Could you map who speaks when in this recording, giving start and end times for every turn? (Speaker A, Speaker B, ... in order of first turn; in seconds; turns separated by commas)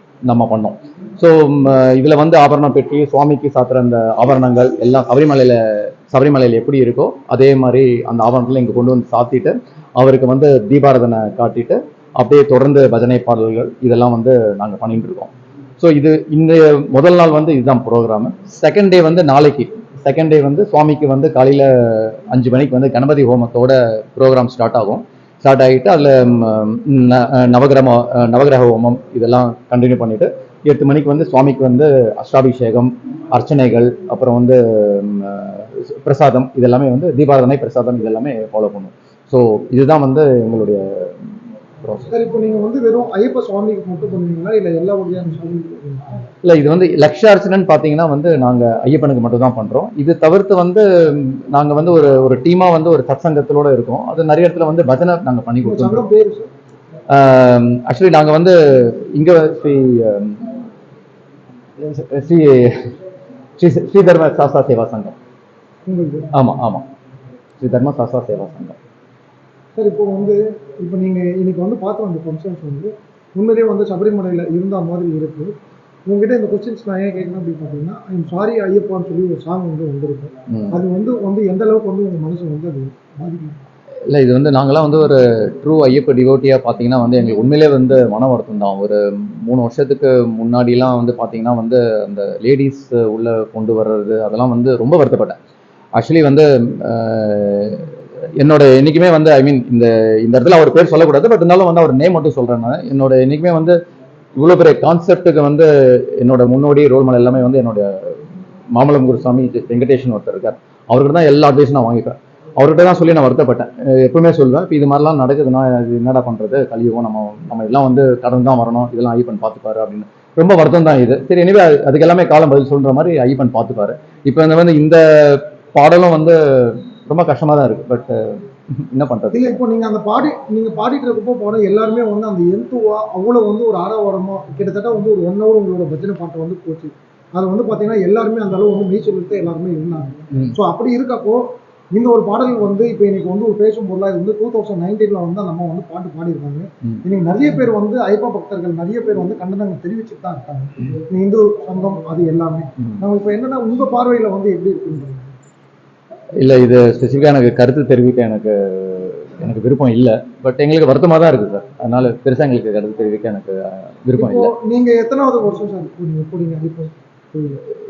Speaker A: 0.2-41.1, Speaker A: 41.8-42.1, Speaker B: 42.1-46.1, Speaker A: 46.4-56.0, Speaker B: 55.6-56.5, Speaker A: 57.1-60.5, Speaker A: 61.8-62.9, Speaker A: 63.6-65.2, Speaker B: 65.9-66.3, Speaker A: 66.3-66.8, Speaker A: 67.6-68.8, Speaker B: 69.8-75.5, Speaker B: 76.0-83.6, Speaker A: 80.5-80.8, Speaker A: 84.1-95.4, Speaker A: 95.9-103.8, Speaker A: 104.3-108.2, Speaker A: 108.7-129.6, Speaker B: 129.3-155.3, Speaker A: 156.4-164.5, Speaker B: 164.2-167.6